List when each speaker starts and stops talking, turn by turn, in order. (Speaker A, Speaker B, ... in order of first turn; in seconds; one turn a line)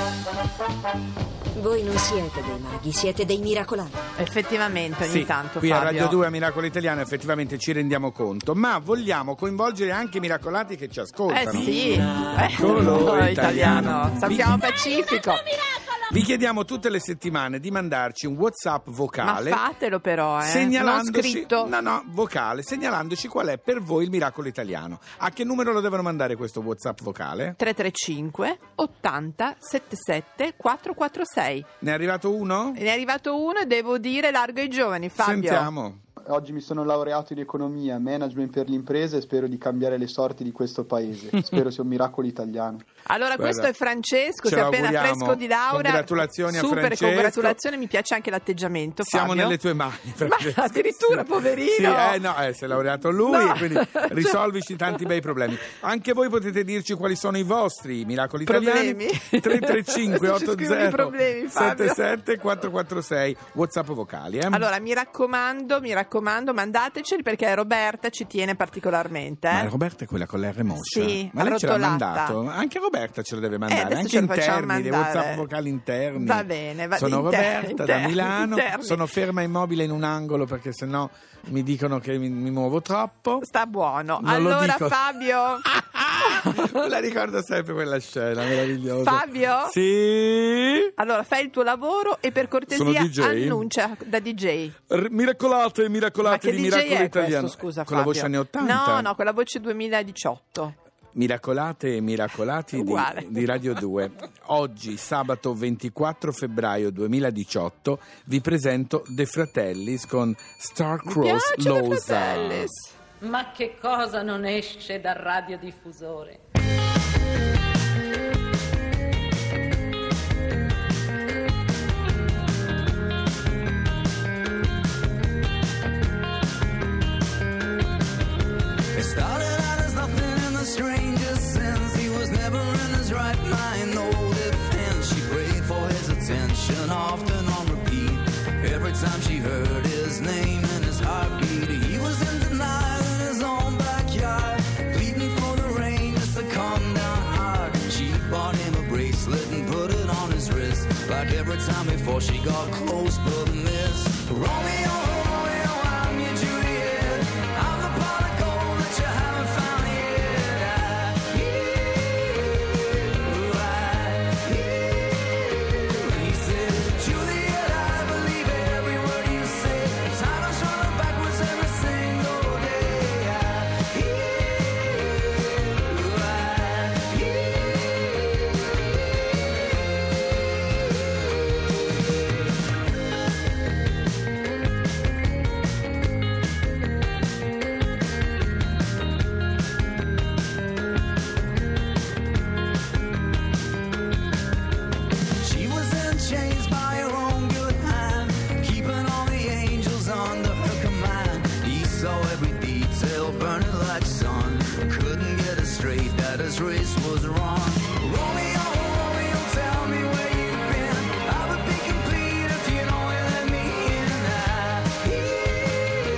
Speaker A: 1.6-4.0
Speaker B: 4.2-6.2
Speaker C: 5.0-11.9
Speaker B: 11.3-15.5
Speaker C: 12.5-14.7
Speaker C: 16.1-19.6
Speaker B: 19.2-21.7
Speaker C: 20.4-27.6
Speaker B: 27.6-31.7
Speaker C: 31.8-32.8
Speaker B: 32.8-35.7
Speaker C: 35.2-36.0
Speaker D: 36.2-42.8
Speaker B: 43.1-49.6
Speaker C: 43.4-43.7
Speaker C: 44.4-47.6
Speaker C: 49.0-64.7
Speaker B: 50.2-52.2
Speaker B: 53.3-54.4
Speaker B: 58.5-62.0
Speaker B: 64.5-69.7
Speaker C: 69.5-83.5
Speaker B: 70.7-72.4
Speaker B: 73.7-75.5
Speaker B: 76.2-79.0
Speaker B: 83.4-85.7
Speaker C: 84.2-85.0
Speaker C: 85.6-90.9
Speaker B: 89.0-89.8
Speaker B: 91.0-94.8
Speaker C: 92.7-93.7
Speaker C: 94.9-99.1
Speaker B: 96.2-100.8
Speaker C: 101.2-112.7
Speaker B: 102.7-103.6
Speaker B: 111.0-112.9
Speaker E: 113.2-116.4
Speaker F: 128.9-161.4
Speaker F: 163.1-164.7
Speaker F: 165.8-174.2
Speaker F: 175.9-177.2
Speaker F: 195.4-215.1